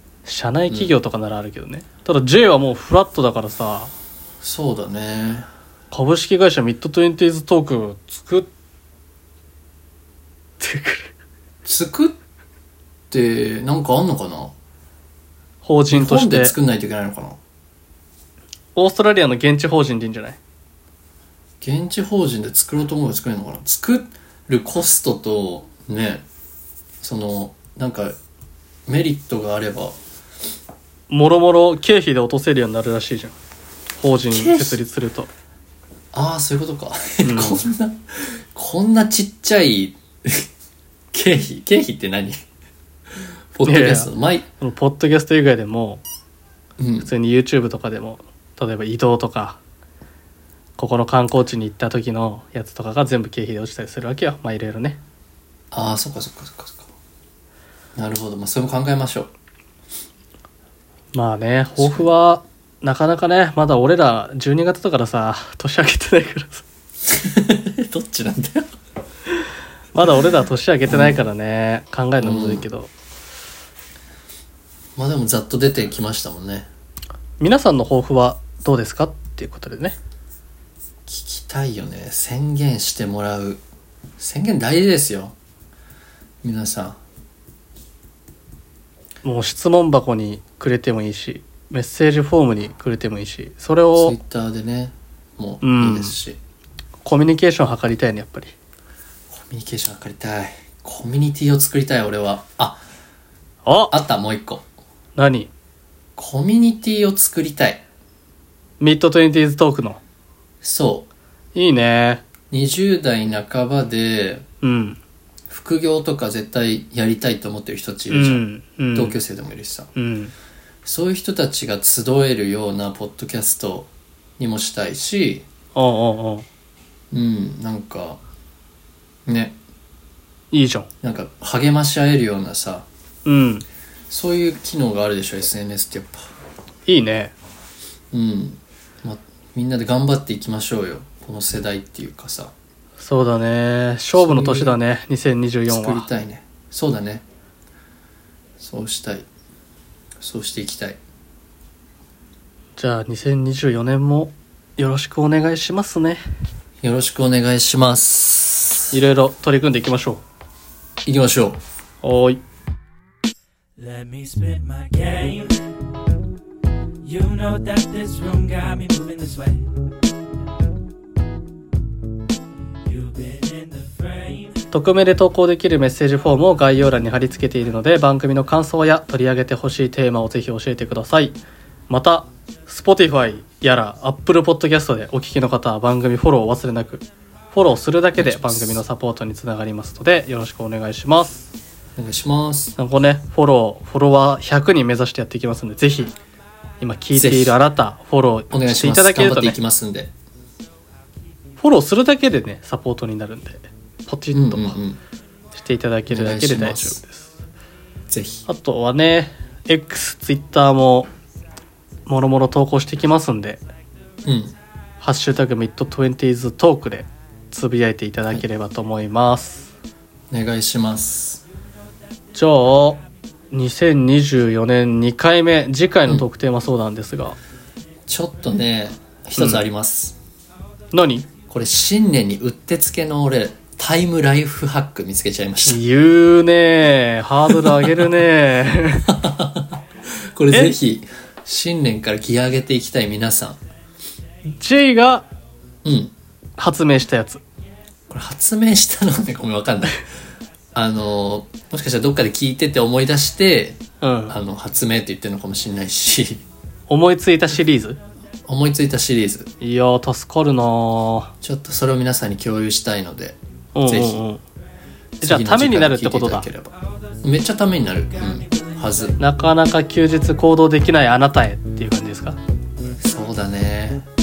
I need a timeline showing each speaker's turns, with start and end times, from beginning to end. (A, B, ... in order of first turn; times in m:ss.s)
0:00.2-0:03.9 A
0:04.4-0:05.4 B
0:05.9-0:08.5 A
0:10.6-0:11.1 A
0:11.6-0:12.2 B
0:13.1-0:14.5 B
0:15.6-0:16.5 A
0:15.9-0:17.4 B
0:18.7-0:20.4 A
0:21.6-0:26.2 B
0:27.0-0:28.1 B
0:28.9-0:30.0 B
0:31.1-0:33.3 A
0:34.0-0:35.3 A
0:34.3-0:34.8 B
0:36.1-0:40.5 B
0:37.2-0:37.6 A
0:41.1-0:42.4 B
0:43.5-0:44.4 B
0:43.6-0:44.1 A
0:44.6-0:46.0 A
0:46.8-0:47.1 B
0:47.0-0:49.6 A
0:50.8-0:55.0 A
0:55.7-0:56.9 B
0:58.0-0:59.3 B
1:01.1-1:06.6 A
1:01.8-1:02.0 B
1:07.1-1:08.7 B
1:09.9-1:12.9 A
1:10.9-1:11.2 B
1:12.2-1:12.6 B
1:15.0-1:16.7 B
1:17.4-1:20.0 A
1:21.1-1:23.6 B
1:24.2-1:25.3 B
1:26.4-1:27.0 B
1:29.2-1:34.2 A
1:33.9-1:36.4 B
1:35.6-1:36.2 A
1:37.0-1:38.5 A
1:39.3-1:42.8 B
1:43.6-1:43.9 A
1:43.9-1:44.6 B
1:45.2-1:45.5 A
1:46.2-1:47.8 B
1:48.8-1:50.0 A
1:50.6-1:51.1 B
1:51.5-1:52.2 A
1:52.5-1:54.4 B
1:54.6-1:55.0 A
1:55.5-1:59.9 B
1:58.1-1:59.2 A
2:00.0-2:00.3 A
2:00.8-2:05.5 B
2:05.7-2:06.4 A
2:07.1-2:08.2 B
2:09.2-2:09.6 B
2:10.5-2:10.9 A
2:11.0-2:12.8 B
2:13.2-2:13.6 A
2:14.1-2:16.2 B
2:16.8-2:17.3 A
2:18.1-2:22.5 B
2:23.0-2:26.1 A
2:24.1-2:24.8 B
2:25.7-2:27.2 B
2:28.6-2:29.3 B
2:30.2-2:31.0 B
2:32.8-2:36.2 A
2:36.8-2:38.9 B
2:38.9-2:40.2 A
2:41.0-2:41.6 B
2:42.0-2:42.4 A
2:43.8-2:45.6 C
2:47.0-2:49.7 C
2:52.8-2:54.6 C
2:54.7-3:01.4 A
3:01.9-3:11.5 A
3:08.1-3:08.8 B
3:12.0-3:12.8 B
3:12.8-3:16.1 A
3:16.8-3:19.6 A
3:17.1-3:17.6 B
3:18.5-3:20.1 B
3:21.6-3:24.8 A
3:24.3-3:25.0 B
3:25.5-3:27.4 A
3:26.1-3:27.0 B
3:28.1-3:28.4 B
3:28.5-3:31.1 A
3:32.0-3:33.6 A
3:34.2-3:34.6 B
3:35.0-3:39.7 A
3:40.3-3:41.4 B
3:42.3-3:47.4 A
3:48.1-3:50.2 B
3:50.9-3:51.3 A
3:51.5-3:55.8 B
3:55.7-3:59.1 A
3:57.7-3:58.0 B
3:59.0-3:59.8 B
4:00.3-4:03.6 B
4:04.5-4:05.3 A
4:05.8-4:06.1 B
4:06.6-4:07.4 A
4:08.1-4:10.0 B
4:10.7-4:16.4 B
4:14.0-4:14.3 A
4:16.9-4:18.0 A
4:18.4-4:19.5 B
4:19.6-4:21.3 A
4:21.4-4:24.2 B
4:23.7-4:24.4 A
4:25.2-4:29.2 B
4:25.2-4:26.5 A
4:29.2-4:32.4 A
4:33.0-4:34.0 B